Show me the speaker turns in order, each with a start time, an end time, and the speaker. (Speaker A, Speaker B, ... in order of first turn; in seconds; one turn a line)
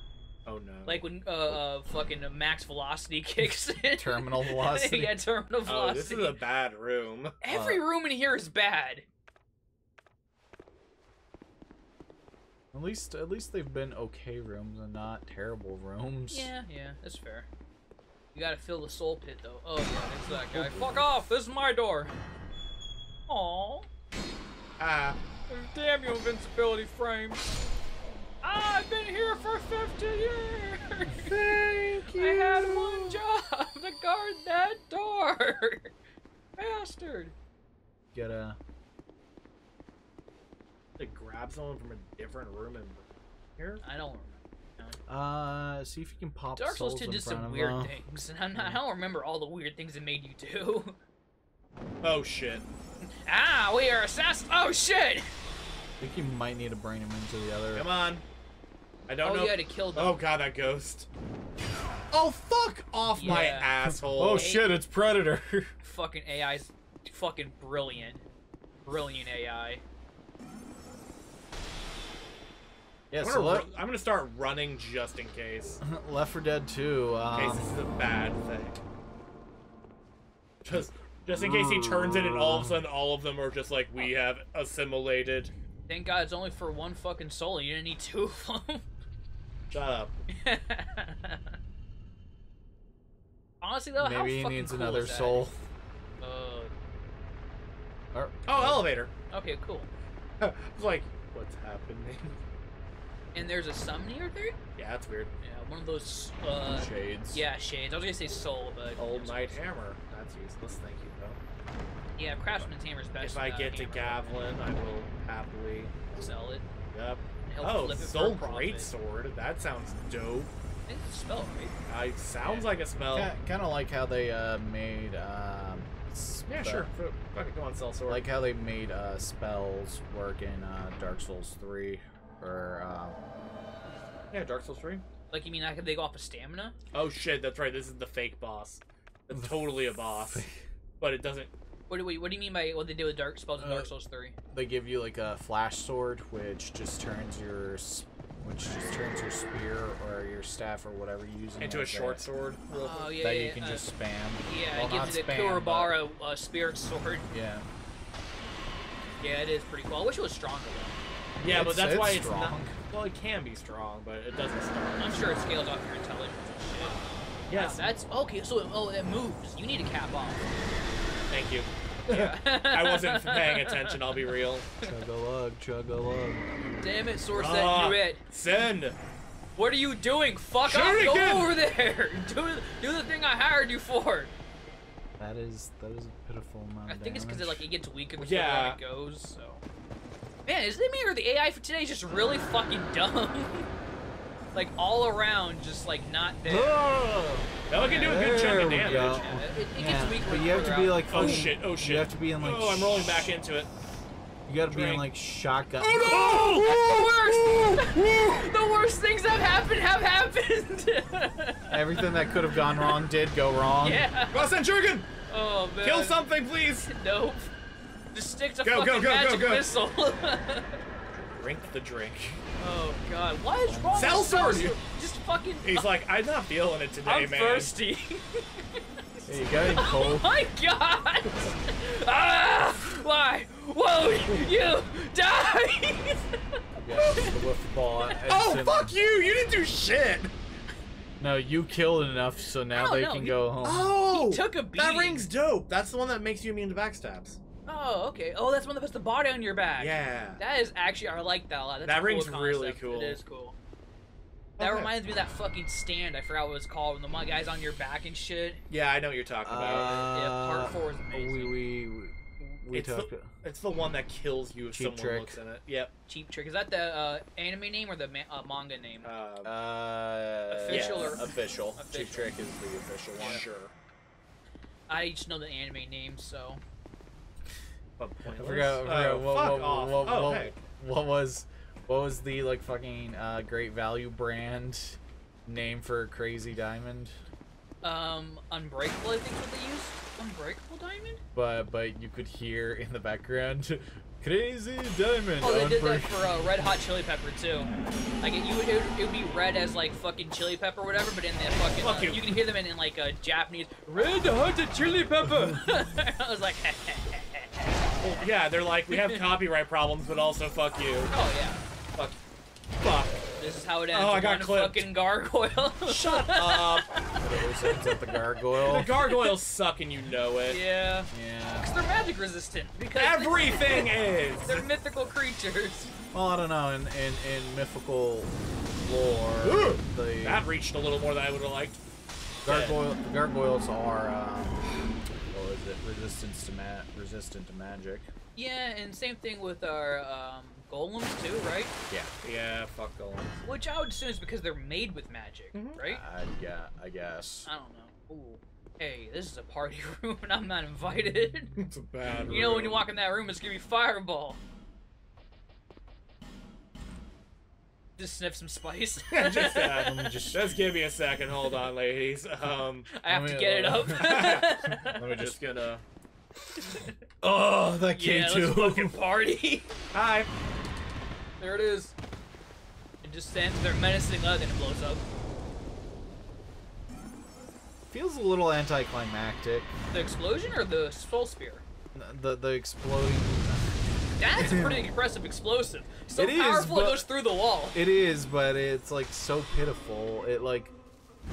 Speaker A: 0.5-1.1
Speaker B: 0.8-6.4
Speaker C: 3.9-5.2
Speaker A: 5.7-7.4
Speaker B: 7.4-9.0
Speaker C: 7.5-7.8
Speaker C: 12.7-16.5
Speaker B: 16.3-17.5
Speaker B: 18.3-22.1
Speaker C: 20.2-21.2
Speaker B: 23.3-23.9
Speaker A: 24.8-25.2
Speaker B: 25.5-27.6
Speaker B: 28.4-31.3
Speaker C: 31.2-33.2
Speaker B: 32.1-35.9
Speaker B: 36.6-37.3
Speaker C: 38.1-38.6
Speaker A: 41.0-43.0
Speaker A: 43.6-43.8
Speaker B: 43.8-45.0
Speaker C: 45.1-48.0
Speaker B: 46.5-51.0
Speaker A: 52.0-52.7
Speaker B: 53.1-55.3
Speaker C: 56.0-57.9
Speaker A: 57.7-58.2
Speaker A: 59.1-61.1
Speaker B: 59.2-60.2
Speaker A: 62.1-64.5
Speaker B: 63.1-63.7
Speaker C: 63.3-65.7
Speaker B: 64.3-64.7
Speaker B: 65.8-68.2
Speaker B: 68.8-69.8
Speaker C: 73.1-73.7
Speaker A: 73.2-75.8
Speaker C: 75.8-77.6
Speaker A: 77.3-78.8
Speaker A: 80.6-85.5
Speaker C: 80.7-82.8
Speaker B: 85.9-88.8
Speaker A: 89.7-90.2
Speaker B: 90.3-91.5
Speaker B: 93.6-95.4
Speaker C: 94.0-95.6
Speaker B: 96.2-96.7
Speaker C: 98.1-98.8
Speaker A: 98.5-99.1
Speaker B: 99.3-99.9
Speaker A: 100.4-102.4
Speaker B: 103.3-104.6
Speaker A: 104.8-105.3
Speaker B: 105.4-109.6
Speaker C: 106.8-107.4
Speaker A: 109.0-111.4
Speaker B: 112.2-114.4
Speaker A: 113.2-115.9
Speaker B: 116.1-116.6
Speaker A: 116.9-120.5
Speaker B: 117.4-118.9
Speaker B: 120.9-121.8
Speaker A: 121.9-123.3
Speaker C: 123.1-126.9
Speaker A: 126.5-128.3
Speaker C: 128.1-133.2
Speaker A: 134.3-135.0
Speaker B: 135.3-136.8
Speaker A: 136.9-140.4
Speaker C: 139.3-140.6
Speaker A: 141.0-141.5
Speaker B: 141.9-144.3
Speaker C: 143.6-143.9
Speaker C: 144.5-152.2
Speaker A: 151.6-153.1
Speaker B: 152.7-153.9
Speaker C: 153.2-156.0
Speaker B: 154.4-157.3
Speaker C: 157.3-157.7
Speaker B: 159.2-161.0
Speaker A: 161.4-165.6
Speaker C: 161.4-162.8
Speaker B: 165.0-167.0
Speaker A: 167.5-167.8
Speaker B: 167.5-170.5
Speaker A: 171.3-174.7
Speaker B: 172.1-174.1
Speaker C: 174.8-176.5
Speaker B: 176.8-178.2
Speaker A: 177.3-179.0
Speaker B: 179.6-184.3
Speaker A: 180.6-181.5
Speaker C: 185.2-187.6
Speaker B: 186.9-189.6
Speaker A: 188.2-188.8
Speaker B: 190.4-193.7
Speaker B: 194.5-196.8
Speaker C: 196.4-203.3
Speaker A: 197.7-199.3
Speaker B: 197.8-201.4
Speaker A: 201.1-203.7
Speaker C: 204.5-206.4
Speaker A: 204.7-205.1
Speaker A: 205.8-208.5
Speaker B: 206.1-213.0
Speaker C: 211.7-214.1
Speaker B: 213.8-214.5
Speaker A: 214.3-215.1
Speaker B: 215.3-216.2
Speaker A: 215.8-216.9
Speaker B: 216.9-217.5
Speaker B: 218.1-220.8
Speaker A: 218.6-219.7
Speaker A: 221.1-222.4
Speaker B: 222.6-225.9
Speaker C: 223.7-224.2
Speaker A: 223.9-224.8
Speaker A: 225.6-227.7
Speaker B: 227.0-228.8
Speaker C: 229.3-230.3
Speaker B: 229.6-237.3
Speaker C: 236.8-238.9
Speaker A: 237.0-237.3
Speaker A: 238.3-240.3
Speaker C: 241.2-243.9
Speaker B: 242.7-243.5
Speaker A: 243.6-247.4
Speaker B: 244.1-245.3
Speaker B: 247.7-253.5
Speaker A: 249.8-250.4
Speaker A: 251.8-253.2
Speaker A: 254.6-254.9
Speaker B: 254.6-258.6
Speaker A: 258.7-259.9
Speaker C: 259.4-263.3
Speaker B: 259.7-261.5
Speaker A: 262.7-265.9
Speaker C: 264.7-265.4
Speaker B: 266.1-269.1
Speaker A: 269.0-269.5
Speaker C: 269.4-273.4
Speaker B: 270.5-272.4
Speaker A: 270.7-271.2
Speaker A: 273.1-273.7
Speaker B: 273.2-273.4
Speaker B: 274.9-276.6
Speaker A: 278.0-280.5
Speaker C: 278.3-287.2
Speaker B: 287.8-291.2
Speaker C: 291.3-296.4
Speaker B: 295.4-297.7
Speaker B: 298.2-307.8
Speaker A: 301.7-302.2
Speaker A: 308.0-311.1
Speaker B: 308.9-309.2
Speaker B: 311.1-311.6
Speaker A: 312.8-313.3
Speaker B: 313.4-317.0
Speaker A: 313.9-314.9
Speaker A: 315.9-317.0
Speaker C: 317.2-318.9
Speaker B: 317.6-318.1
Speaker A: 318.6-320.6
Speaker B: 320.5-323.9
Speaker C: 321.1-321.7
Speaker A: 322.9-324.7
Speaker B: 324.4-325.9
Speaker C: 326.1-330.4
Speaker A: 329.4-331.8
Speaker A: 332.4-332.8
Speaker C: 332.4-334.7
Speaker C: 335.3-338.1
Speaker B: 338.4-341.7
Speaker A: 342.2-343.4
Speaker B: 343.4-346.0
Speaker A: 345.5-345.8
Speaker C: 345.8-347.5
Speaker B: 347.4-351.6
Speaker A: 351.6-352.8
Speaker B: 352.3-354.4
Speaker B: 358.0-359.9
Speaker A: 359.1-362.9
Speaker C: 359.8-360.5
Speaker B: 362.9-365.1
Speaker C: 363.0-365.4
Speaker A: 364.0-365.8
Speaker B: 366.5-366.9
Speaker C: 367.2-369.0
Speaker B: 367.9-369.8
Speaker A: 369.9-370.3
Speaker B: 371.4-371.9
Speaker B: 373.0-375.1
Speaker C: 377.9-379.7
Speaker B: 379.9-381.6
Speaker C: 381.9-383.8
Speaker B: 384.2-387.8
Speaker C: 384.3-384.9
Speaker C: 386.1-387.1
Speaker C: 387.7-390.7